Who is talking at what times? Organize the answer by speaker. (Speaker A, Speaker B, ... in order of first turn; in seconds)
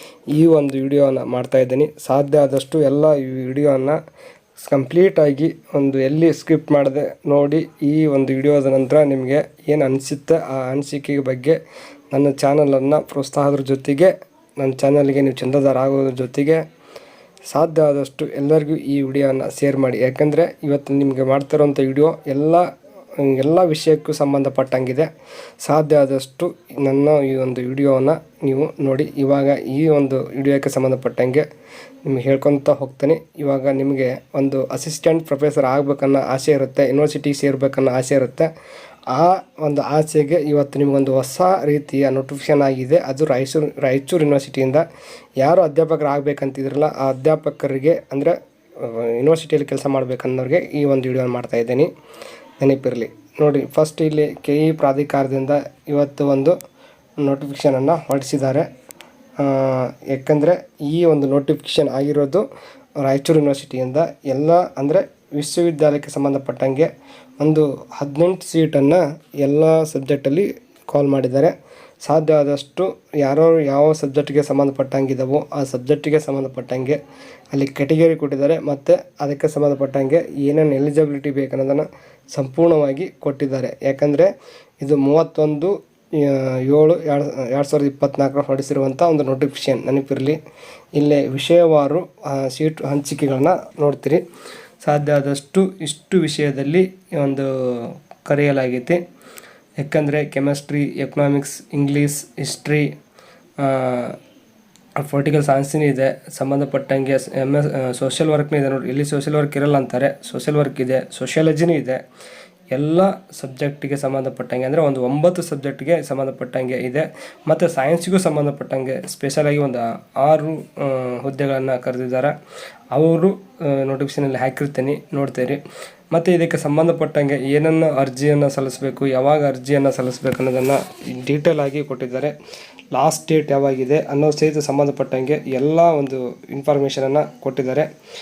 Speaker A: 0.3-4.0, 4.6-11.6, 12.1-16.6, 17.5-25.1, 25.6-31.5, 32.0-38.5, 39.1-44.9, 45.4-51.9, 52.6-56.5, 57.2-58.7, 59.4-62.5, 63.0-66.9, 67.4-77.0, 77.5-84.3, 84.8-90.4, 91.0-94.2, 94.8-99.0, 99.8-102.9, 103.6-104.2, 105.0-112.0, 112.7-122.3, 122.9-132.3, 132.9-137.9